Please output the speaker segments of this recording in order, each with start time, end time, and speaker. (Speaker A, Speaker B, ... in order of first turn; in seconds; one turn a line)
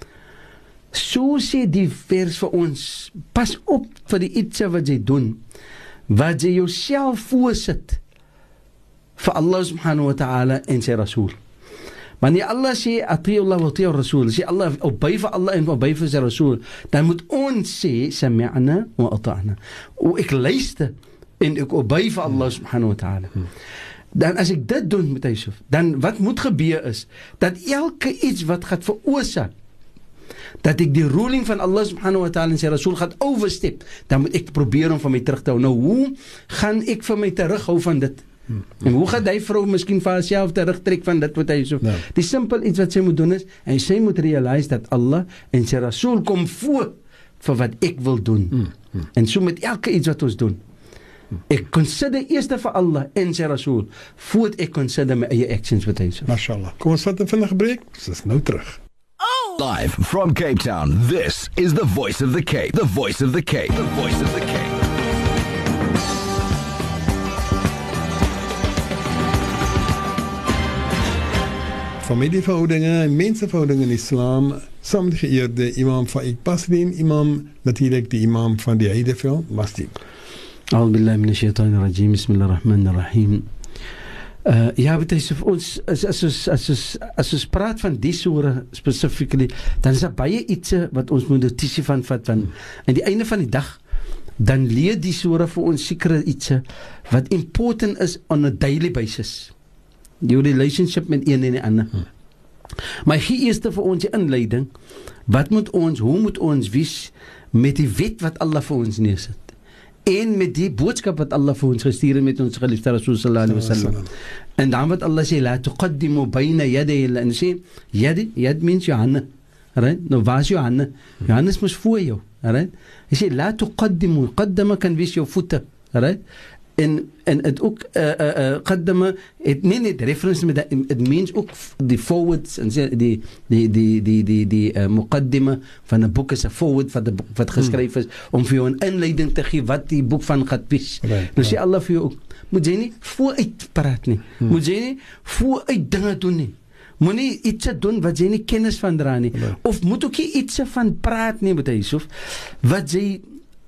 Speaker A: 0.9-5.4
Speaker A: 6.1-8.0
Speaker A: 9.2-11.4
Speaker A: 12.2-23.4
Speaker A: 24.1-29.5
Speaker A: 30.6-38.2
Speaker A: 38.8-50.6
Speaker A: 51.5-56.3
Speaker B: 56.3-58.8
Speaker C: 59.3-65.0
Speaker B: 72.0-80.0
Speaker A: 80.7-83.5
Speaker A: 84.4-93.8
Speaker A: 94.4-99.5
Speaker A: 100.2-102.0
Speaker A: 103.0-104.7
Speaker A: 105.3-109.4
Speaker A: 110.0-114.1
Speaker B: 113.5-114.1
Speaker A: 114.6-119.2
Speaker A: 119.8-126.2
Speaker A: 126.8-152.1
Speaker B: 141.0-141.6
Speaker A: 152.6-153.2